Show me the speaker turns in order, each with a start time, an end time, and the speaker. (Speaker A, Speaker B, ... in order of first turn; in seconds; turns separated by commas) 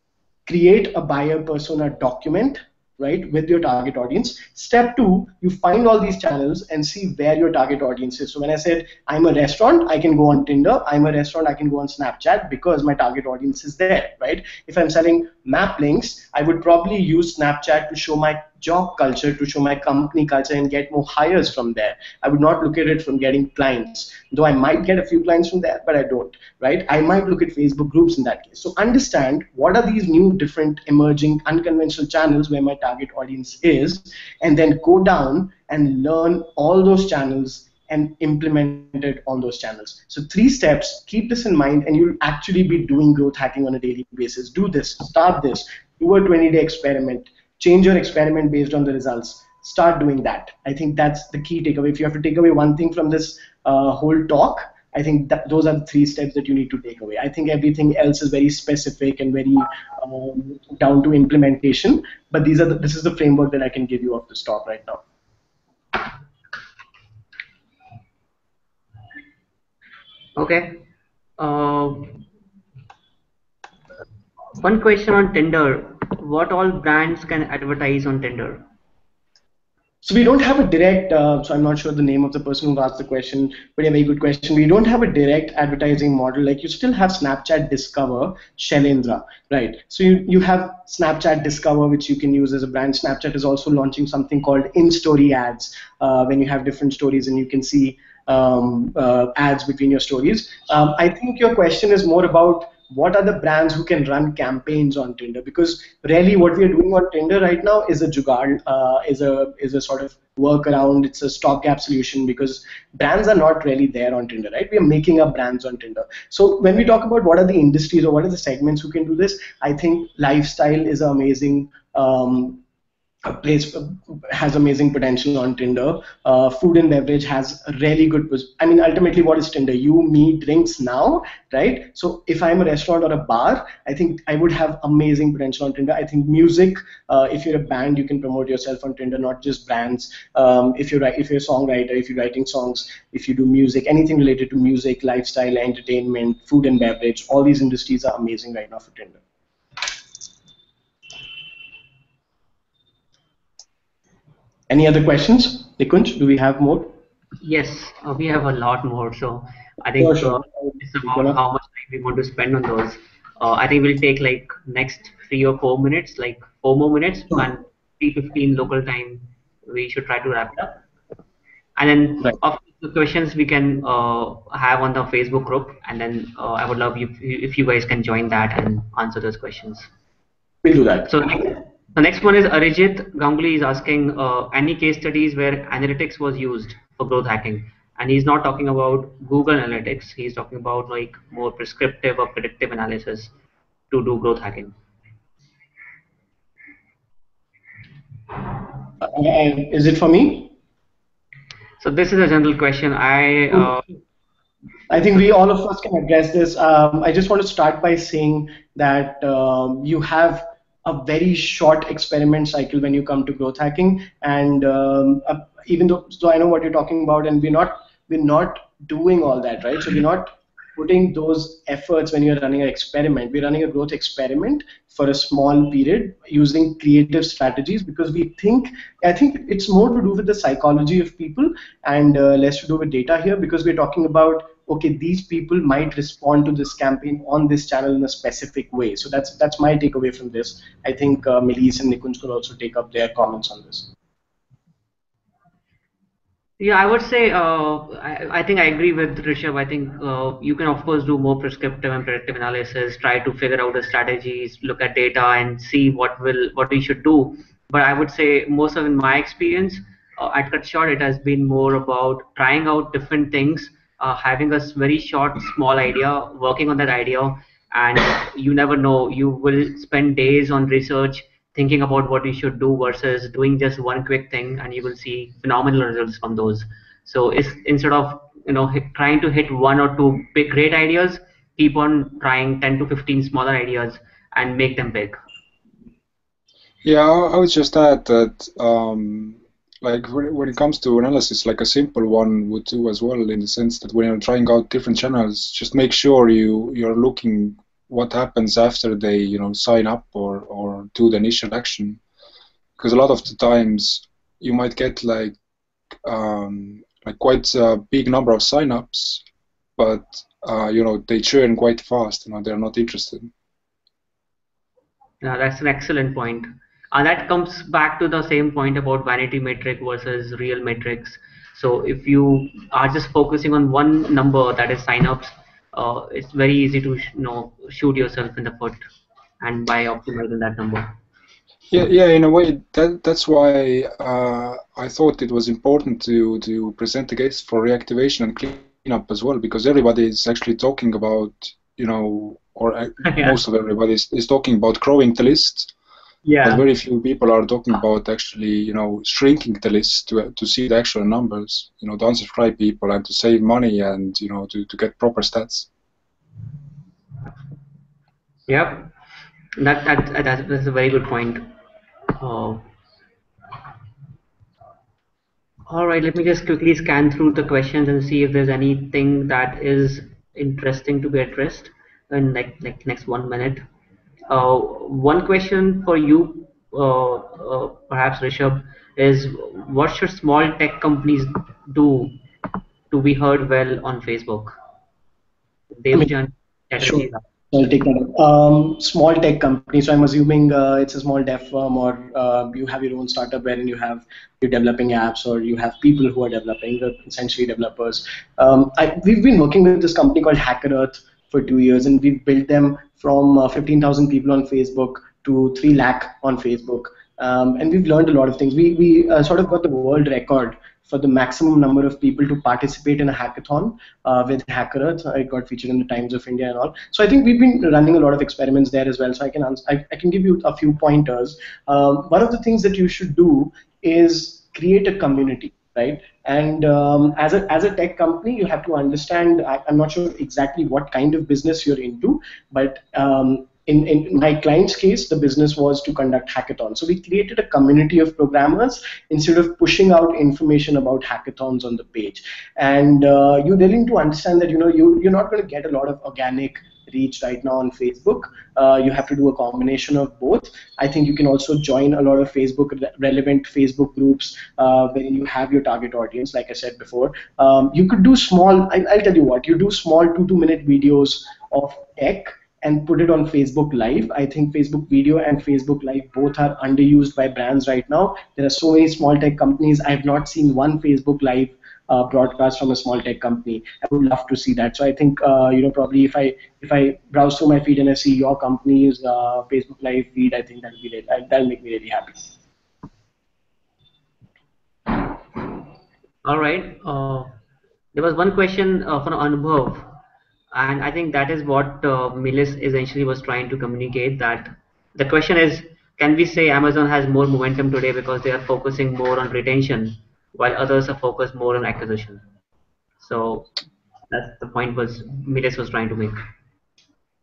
Speaker A: 0.5-65.0, Speaker B: 70.3-70.8, Speaker B: 71.4-72.2, Speaker B: 74.6-78.7, Speaker A: 80.0-122.6, Speaker A: 123.2-149.2, Speaker A: 154.7-156.9, Speaker B: 157.4-170.8, Speaker A: 160.0-161.4, Speaker B: 171.8-179.9, Speaker A: 180.6-181.4, Speaker B: 181.1-193.3, Speaker B: 193.9-194.7, Speaker A: 199.0-200.5, Speaker B: 201.8-203.8, Speaker A: 204.9-243.9, Speaker B: 246.6-285.1, Speaker C: 286.8-302.0, Speaker C: 302.8-305.4, Speaker C: 306.0-309.2, Speaker C: 309.8-313.3, Speaker B: 315.2-328.8, Speaker B: 329.4-330.9, Speaker C: 331.7-345.7, Speaker B: 343.1-343.3, Speaker B: 346.2-346.6, Speaker C: 346.4-355.7, Speaker B: 358.5-358.9, Speaker B: 359.6-361.5, Speaker B: 362.1-362.6, Speaker B: 365.7-373.6, Speaker B: 374.3-382.2, Speaker B: 382.9-384.6, Speaker B: 385.7-387.2, Speaker A: 386.8-482.3, Speaker B: 486.2-487.3, Speaker B: 487.9-489.9, Speaker B: 490.5-502.2, Speaker B: 503.0-503.5, Speaker B: 504.1-506.2